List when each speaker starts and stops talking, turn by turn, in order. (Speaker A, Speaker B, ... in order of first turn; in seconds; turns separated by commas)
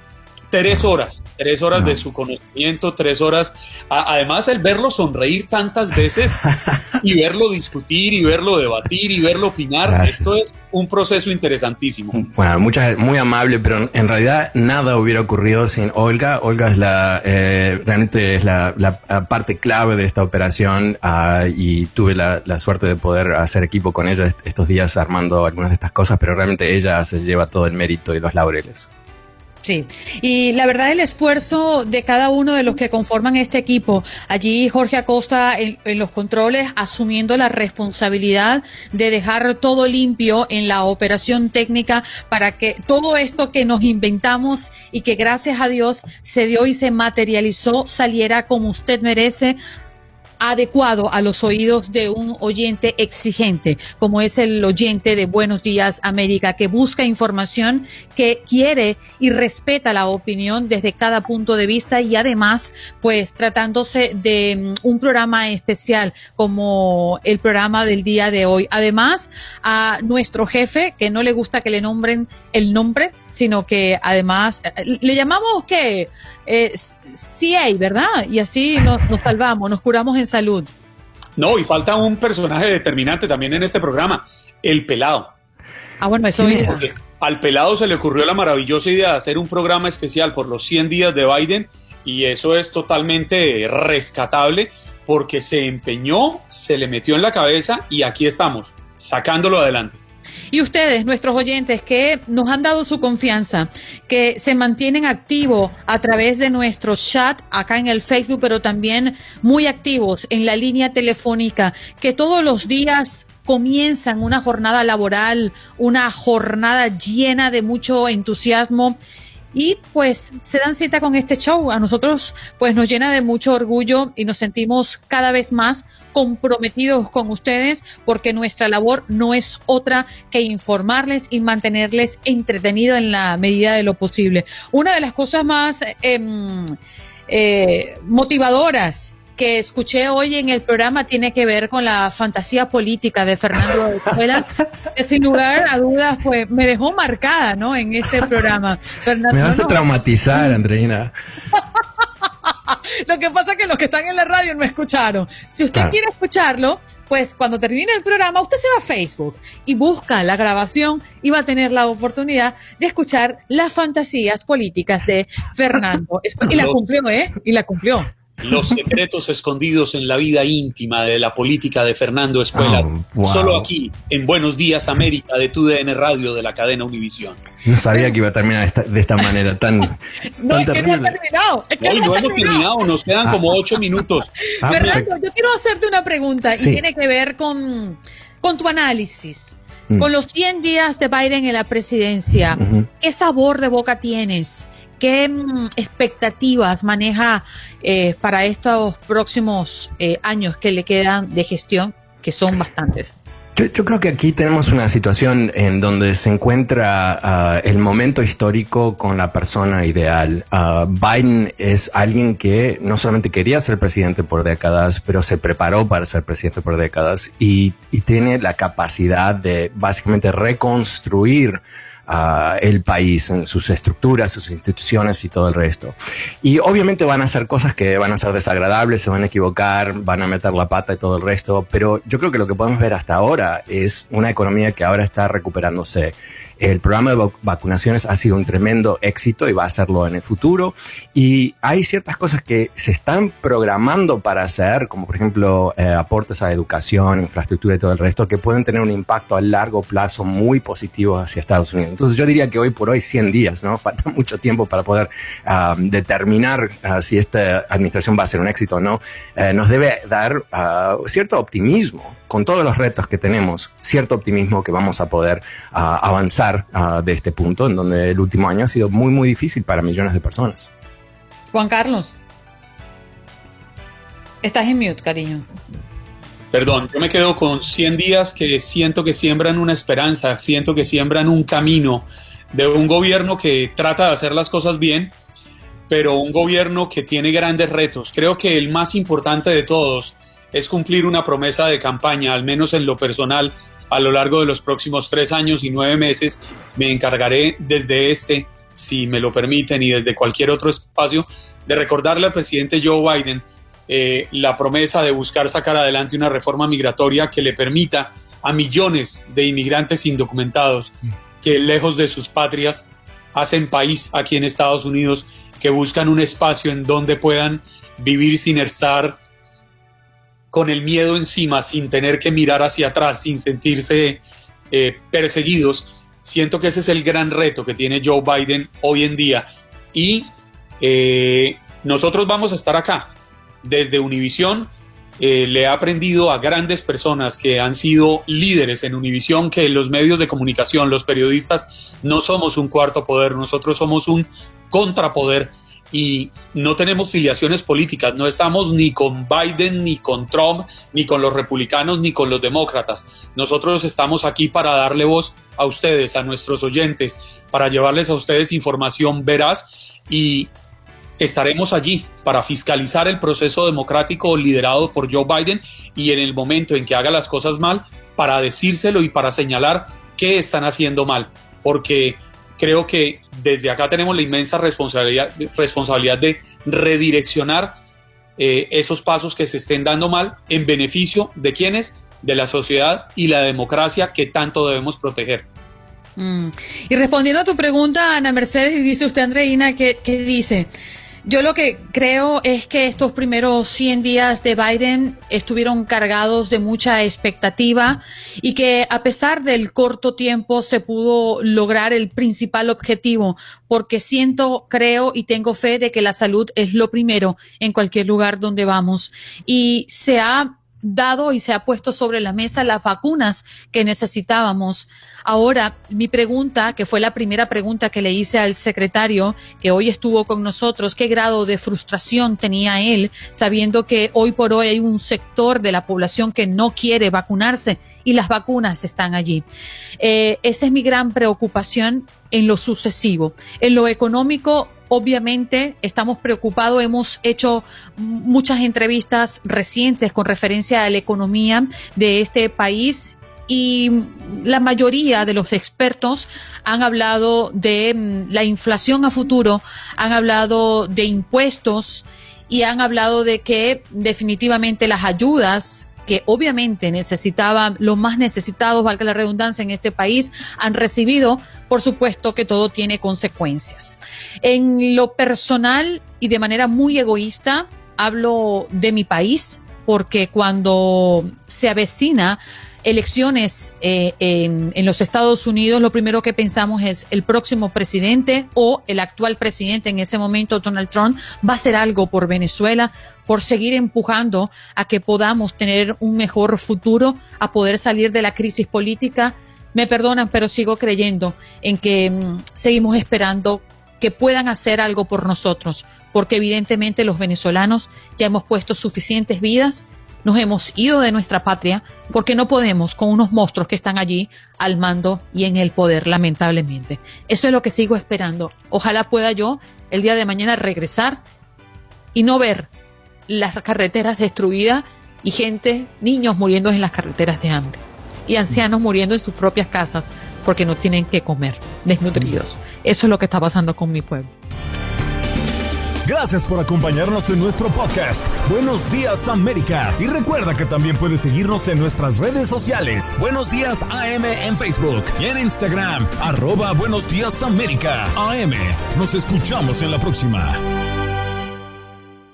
Speaker A: 0.5-6.4, Speaker B: 1.7-2.0, Speaker A: 7.0-12.2, Speaker B: 9.8-10.3, Speaker B: 12.1-28.9, Speaker C: 29.6-49.6, Speaker C: 50.4-80.7, Speaker A: 81.4-85.3, Speaker C: 86.0-86.8, Speaker B: 86.4-86.8, Speaker A: 86.6-100.0, Speaker C: 100.5-119.0, Speaker C: 119.5-136.8, Speaker C: 137.3-149.8, Speaker B: 149.3-151.1, Speaker C: 153.1-168.1, Speaker A: 166.5-166.8, Speaker A: 168.4-177.4, Speaker B: 172.5-173.7, Speaker B: 177.7-181.2, Speaker C: 180.4-182.6, Speaker A: 181.8-184.3, Speaker B: 184.6-185.1, Speaker C: 184.7-203.1, Speaker B: 186.6-186.8, Speaker B: 192.6-192.9, Speaker B: 203.6-270.7, Speaker C: 271.5-272.1, Speaker C: 274.4-275.5, Speaker A: 276.5-285.1, Speaker A: 285.9-319.2, Speaker A: 320.5-330.3, Speaker A: 330.8-333.1, Speaker A: 333.6-360.5, Speaker A: 361.2-377.8, Speaker A: 378.4-385.5, Speaker C: 386.2-390.7, Speaker C: 391.2-429.4, Speaker C: 430.0-511.2, Speaker C: 512.1-512.7, Speaker C: 513.3-524.3, Speaker D: 526.0-540.6